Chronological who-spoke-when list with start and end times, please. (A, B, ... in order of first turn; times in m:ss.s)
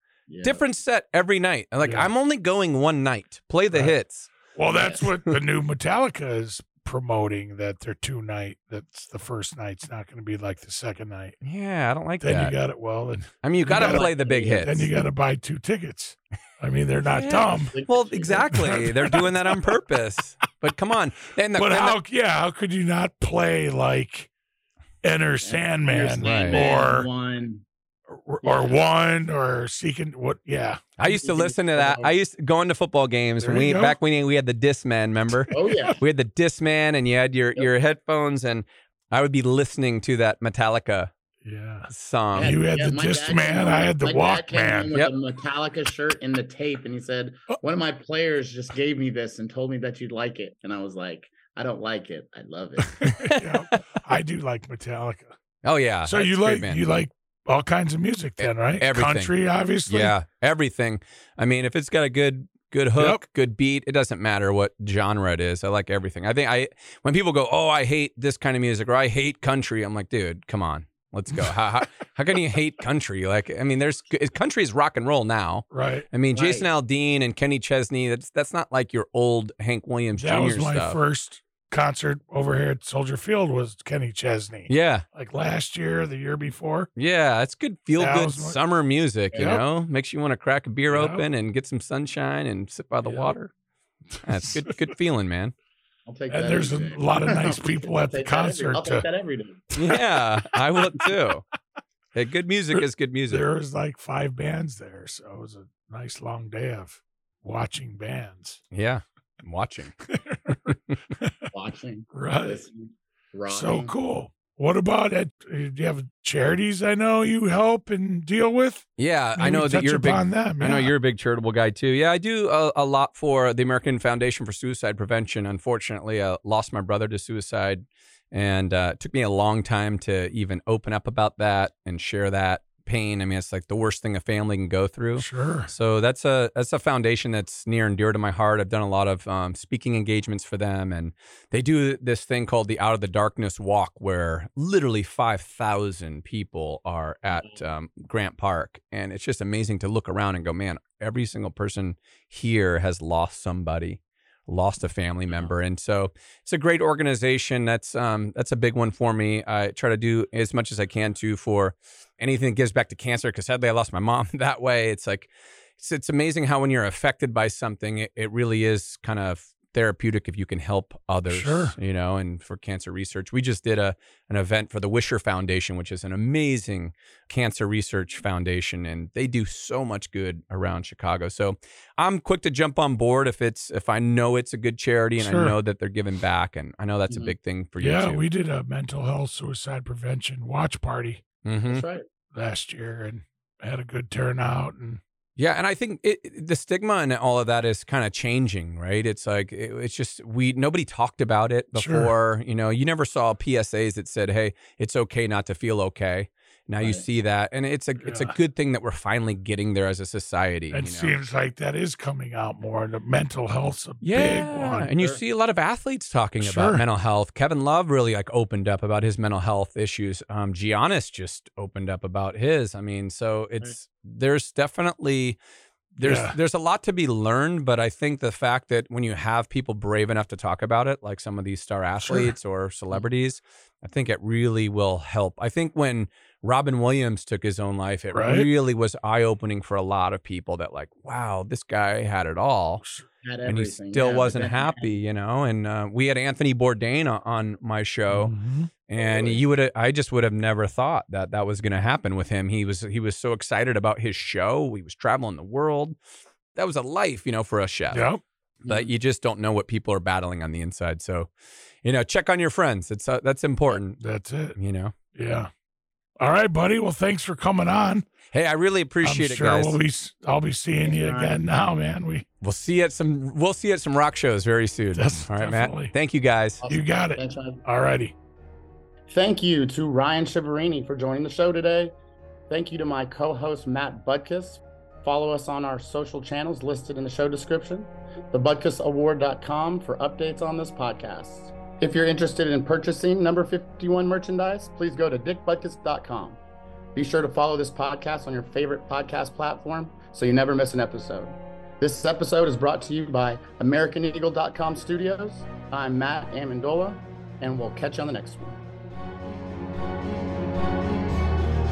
0:00.3-0:00.6 A
0:00.4-0:04.3 B
0:01.8-0:02.1 C
0:04.5-0:11.4 C
0:04.7-0:05.0 A
0:11.4-0:12.6 B
0:12.2-0:17.7 C
0:13.4-0:14.9 B
0:13.7-0:14.8 A
0:17.1-0:22.0 B
0:17.5-0:18.8 A
0:18.6-0:19.2 C
0:21.6-0:24.3 C
0:25.0-0:27.1 C
0:25.4-0:27.6 A
0:26.2-0:26.6 B
0:28.1-0:30.9 C
0:28.4-0:28.8 A
0:31.0-0:41.1 B
0:31.0-0:32.1 A
0:33.4-0:34.0 C
0:35.5-0:36.0 A
0:35.6-0:36.0 C
0:41.4-0:45.0 C
0:41.9-0:42.6 B
0:42.4-0:53.1 A
0:52.9-0:55.3 C
0:53.0-0:53.8 B
0:55.6-0:56.8 B
0:56.0-1:00.2 C
0:58.4-0:59.3 B
0:59.9-1:21.0 B
1:03.0-1:03.2 C
1:15.7-1:16.1 C
1:16.3-1:16.7 A
1:20.2-1:26.9 C
1:24.7-1:25.0 B
1:27.0-1:33.5 B
1:28.0-1:28.6 C
1:29.3-1:29.6 A
1:29.4-1:29.6 C
1:30.9-1:31.2 C
1:33.0-1:33.3 C
1:34.2-1:35.5 B
1:36.1-1:39.7 A
1:36.3-1:39.1 C
1:39.8-1:41.4 B
1:39.8-1:41.0 C
1:42.2-1:43.5 B
1:42.7-1:48.6 C
1:48.7-1:50.0 B
1:50.1-1:51.3 C
1:51.5-1:53.9 A
1:52.1-1:52.6 C
1:53.5-2:00.9 C
1:59.0-3:08.2 B
2:15.2-2:15.7 C
2:51.3-2:51.8 C
3:05.2-3:05.6 C
3:07.8-3:11.2 C
3:11.4-3:11.8 B
3:11.7-3:12.1 A
3:12.3-3:15.0 C
3:15.4-3:31.1 B
3:21.8-3:22.1 C
3:28.0-3:28.4 C
3:30.7-3:34.9 C
3:34.0-3:45.4 B
3:36.4-3:36.8 C
3:46.0-4:02.8 B
3:46.0-3:46.4 C
3:52.0-3:52.3 C
3:58.1-3:58.5 C
4:02.8-4:03.1 C
4:03.2-4:05.0 A
4:03.5-4:08.3 B
4:08.1-4:08.7 C
4:08.9-4:16.0 B
4:09.0-4:09.4 A
4:16.6-4:18.1 B
4:17.9-4:18.2 C
4:18.6-4:18.9 A
4:18.7-4:21.3 B
4:21.8-4:24.0 B
4:24.0-4:24.6 C
4:24.6-4:24.9 B
4:25.1-4:25.5 C
4:26.2-4:28.1 C
4:28.3-4:29.8 B
4:29.0-4:32.2 C
4:30.8-4:31.4 A
4:32.4-4:36.6 B
4:34.9-4:35.9 C
4:36.6-4:37.6 A
4:36.7-4:38.1 C
4:39.1-4:41.9 A
4:42.5-4:56.4 A
4:57.0-5:08.6 A